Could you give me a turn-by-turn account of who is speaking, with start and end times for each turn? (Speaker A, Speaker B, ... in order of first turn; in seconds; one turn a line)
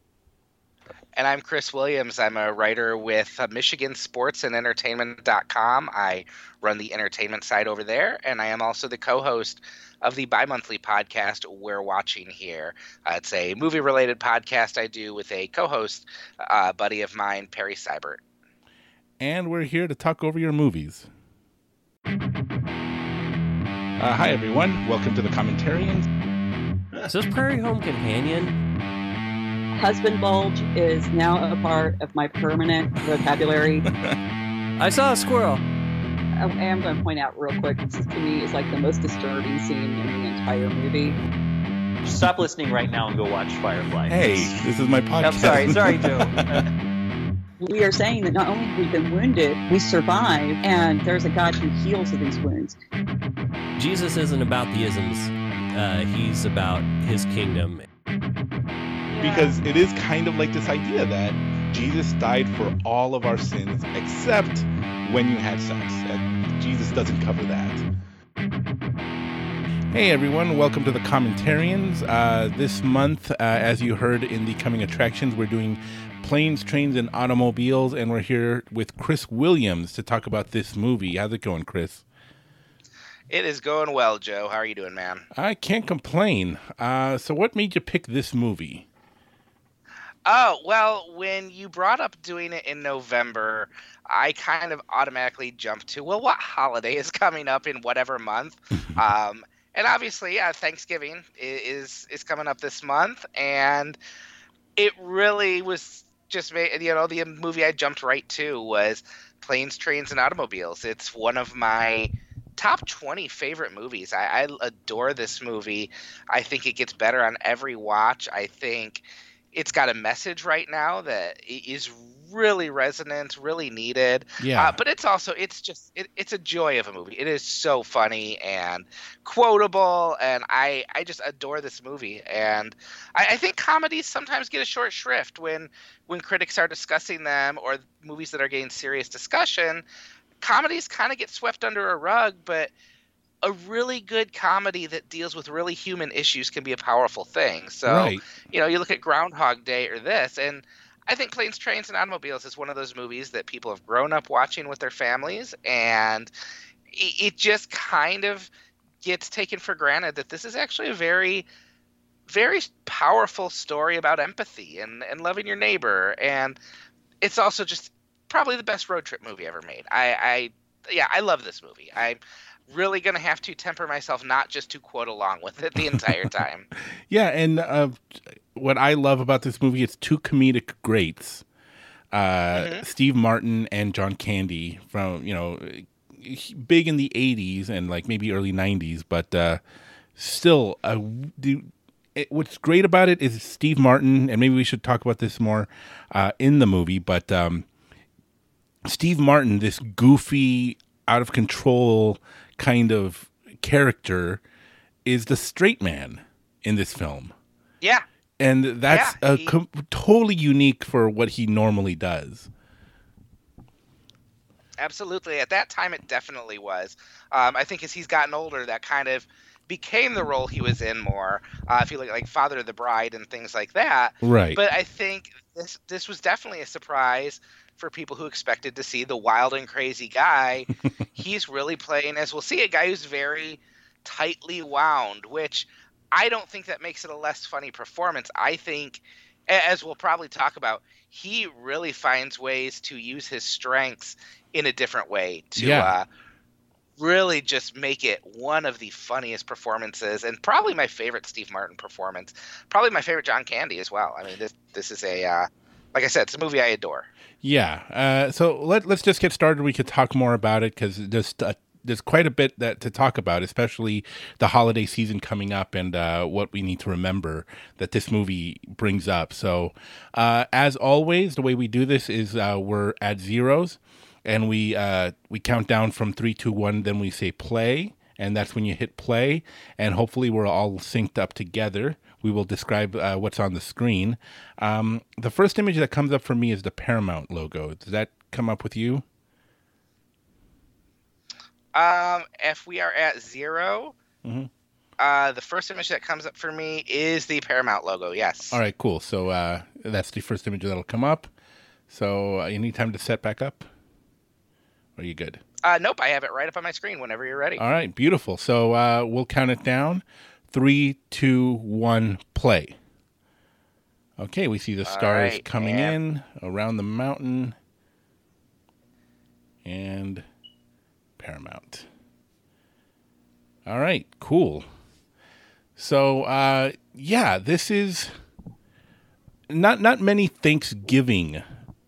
Speaker A: 1.1-18.2
Speaker B: 19.2-21.1
Speaker B: 24.0-26.1
Speaker C: 27.0-28.6
Speaker D: 29.8-33.8
Speaker B: 33.9-34.1
Speaker C: 34.8-35.6
Speaker D: 36.4-41.2
Speaker E: 42.0-44.5
Speaker B: 44.1-46.6
Speaker E: 45.2-46.6
Speaker D: 47.6-52.8
Speaker C: 53.8-57.9
Speaker D: 59.1-59.5
Speaker B: 59.2-67.8
Speaker B: 69.9-82.0
Speaker A: 83.3-85.2
Speaker B: 85.3-88.8
Speaker A: 90.2-104.0
Speaker A: 104.8-139.8
Speaker B: 124.4-124.8
Speaker A: 140.4-142.7
Speaker A: 143.4-156.3
Speaker B: 147.8-148.2
Speaker A: 156.9-158.5
Speaker A: 159.0-161.5
Speaker A: 162.3-166.6
Speaker A: 167.2-176.7
Speaker B: 176.8-181.4
Speaker B: 182.1-189.6
Speaker A: 182.5-182.8
Speaker B: 190.2-197.7
Speaker B: 198.8-204.4
Speaker B: 205.0-207.3
Speaker B: 208.4-212.5
Speaker A: 208.9-209.6
Speaker A: 214.8-246.1
Speaker B: 224.2-224.6
Speaker B: 245.6-245.9
Speaker A: 247.0-257.1
Speaker B: 257.4-289.0
Speaker A: 291.7-293.9
Speaker B: 294.2-294.5
Speaker A: 295.0-298.6
Speaker B: 298.5-301.3
Speaker B: 301.9-303.7
Speaker B: 305.0-305.4
Speaker A: 305.6-307.6
Speaker B: 307.6-312.7
Speaker B: 314.2-317.6
Speaker A: 314.9-315.9
Speaker B: 319.6-320.2
Speaker B: 321.2-321.9
Speaker B: 323.6-324.6
Speaker B: 325.8-328.1
Speaker B: 329.5-331.4